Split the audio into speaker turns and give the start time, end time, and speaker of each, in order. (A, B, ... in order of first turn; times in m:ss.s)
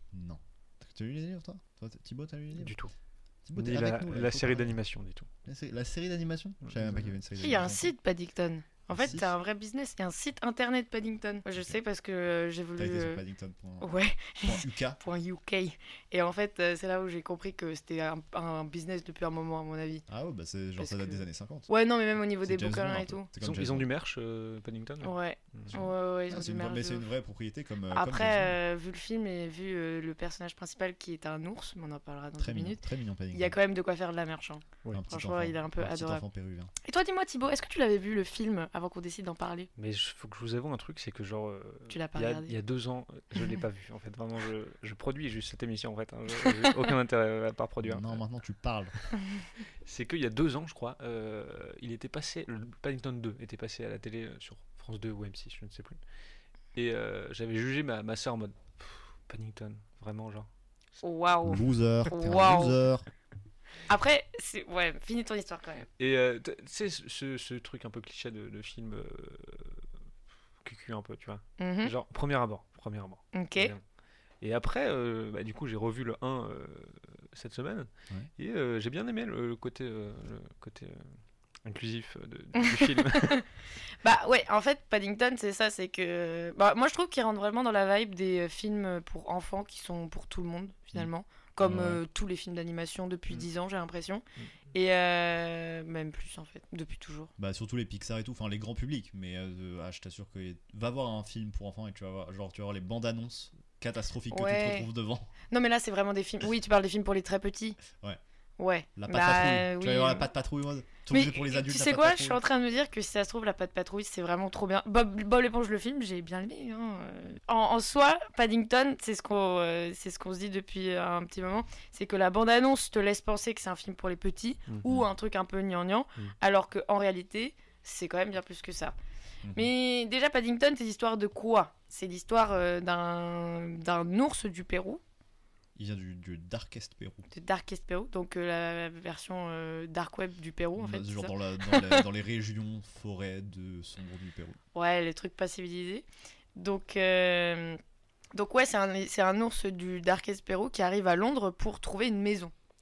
0:00.1-0:02.8 A
0:02.6-0:02.9 B
0:03.4-0:04.8 A
0:03.6-0:05.3 B
0:05.4-0:07.9 A
0:06.6-0:07.1 B
0:07.4-0:13.2 C
0:08.9-0:09.3 A
0:12.8-0:15.0 A
0:13.8-0:20.0 C
0:20.1-0:21.7 A
0:20.8-0:23.3 C
0:22.4-0:23.9 A
0:23.4-0:25.8 B
0:25.0-0:27.0 C
0:25.7-0:28.6 A
0:27.9-0:32.8 C
0:32.4-0:33.6 A
0:33.3-0:36.2 C
0:34.9-0:36.7 A
0:36.8-0:39.7 C
0:39.8-0:48.2 B
0:41.9-0:42.5 C
0:47.8-0:49.0 A
0:49.8-0:56.0 B
0:56.8-1:00.5 B
1:01.0-1:02.8 C
1:01.4-1:03.1 A
1:03.9-1:05.9 C
1:06.0-1:09.8 B
1:10.6-1:13.8 B
1:11.6-1:11.9 C
1:13.3-1:13.7 C
1:14.4-1:21.1 B
1:21.6-1:23.4 B
1:22.6-1:23.4 C
1:24.0-1:37.3 C
1:31.6-1:32.0 A
1:37.4-1:45.3 A
1:44.3-1:44.9 C
1:45.5-1:47.8 C
1:48.6-1:50.3 C
1:49.0-1:52.4 A
1:51.1-2:09.0 C
2:09.4-2:09.7 A
2:09.6-2:15.0 C
2:15.8-2:17.3 A
2:17.3-2:22.0 C
2:20.8-2:24.6 A
2:24.8-2:26.0 C
2:26.6-2:27.8 C
2:28.3-2:32.5 C